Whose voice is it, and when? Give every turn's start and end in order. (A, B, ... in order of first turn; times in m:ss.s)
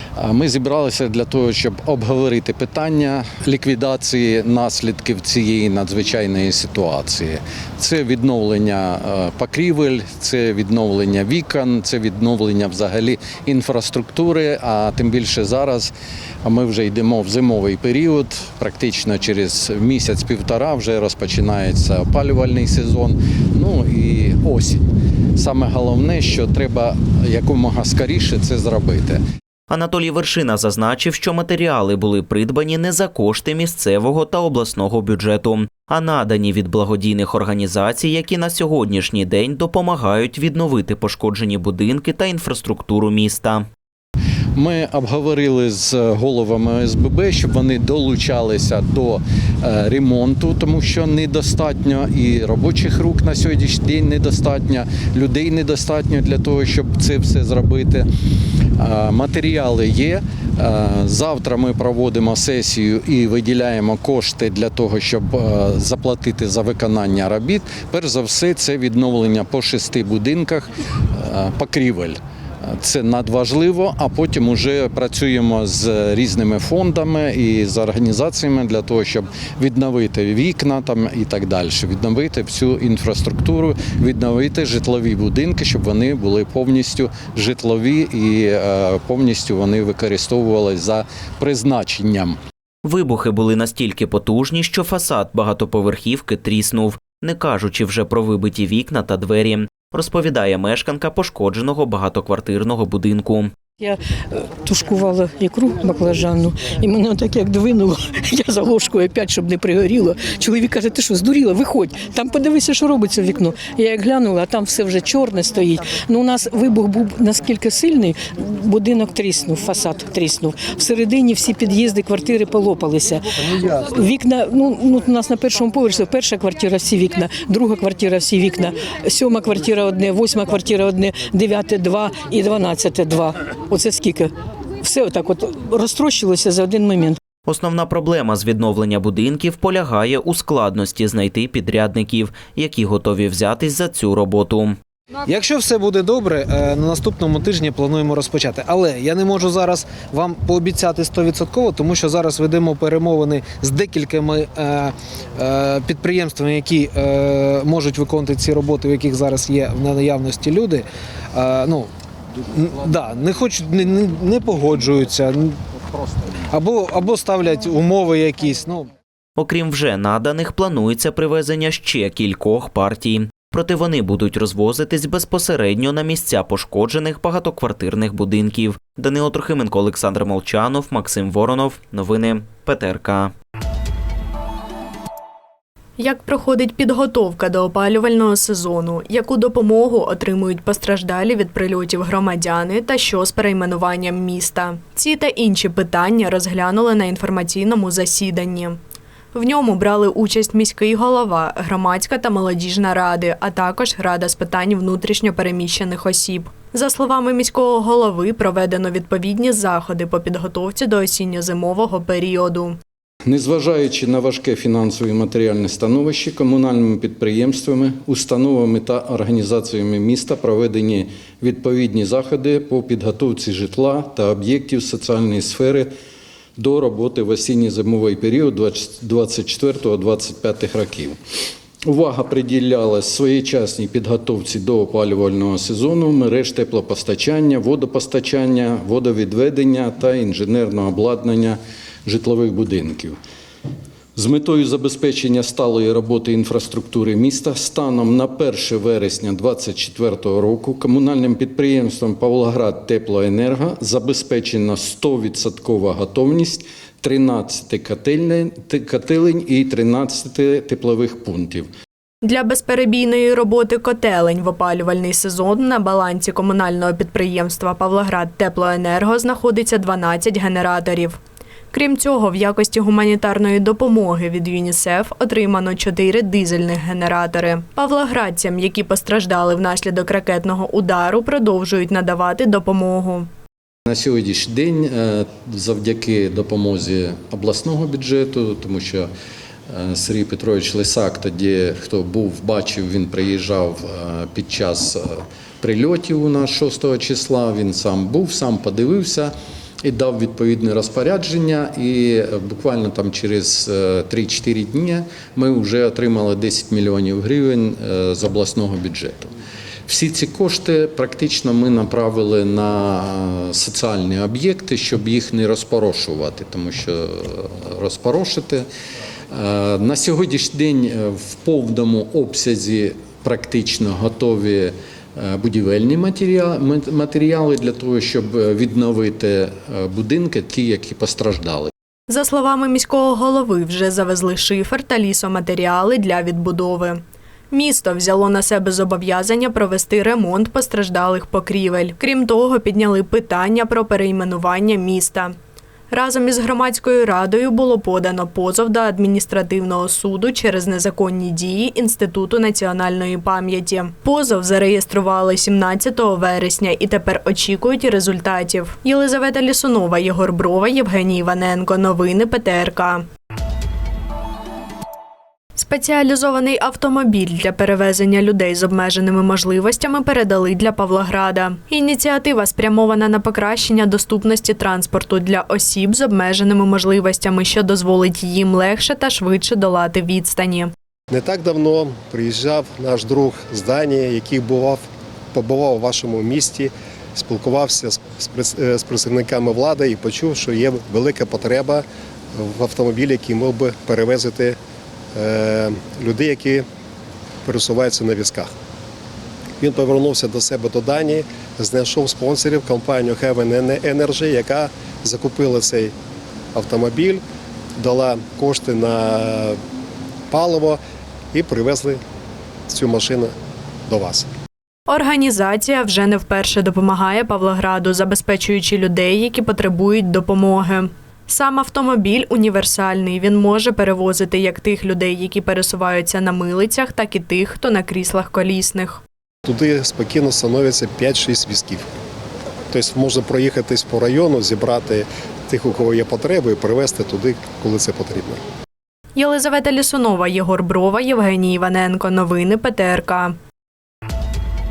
0:00.2-0:15.9 A
0:16.4-0:29.2 A
0:29.7-0:43.6 B
0:44.6-0:58.1 A
0:58.8-1:32.4 A
1:32.8-1:43.5 B
1:43.8-2:17.2 C
2:17.5-2:24.8 B
2:25.3-2:41.9 D
2:42.5-2:45.6 D
2:46.5-2:48.9 D
2:49.4-3:03.3 B
3:06.0-3:18.8 E
3:19.3-3:32.8 E
3:33.2-3:45.9 A
3:46.6-3:51.2 A
3:51.8-4:03.2 A
4:04.2-4:21.7 A
4:22.2-4:31.2 E
4:31.7-4:43.3 E
4:43.8-4:49.1 A
4:49.7-5:09.3 A
5:09.9-5:18.6 A
5:19.3-5:31.7 A
5:32.1-5:45.3 E
5:45.9-6:03.1 E
6:05.6-6:20.7 E
6:21.1-6:31.8 F
6:32.4-6:34.6 F
6:35.2-6:36.6 F
6:37.4-6:38.5 F
6:39.6-6:45.9 F
6:46.5-6:47.2 F
6:47.8-6:49.6 F
6:50.3-6:50.8 F
6:51.3-6:52.0 F
6:52.7-6:53.3 F
6:53.9-6:54.3 F
6:54.9-7:09.0 E
7:09.4-7:11.8 F
7:12.7-7:18.4 F
7:19.2-7:23.3 E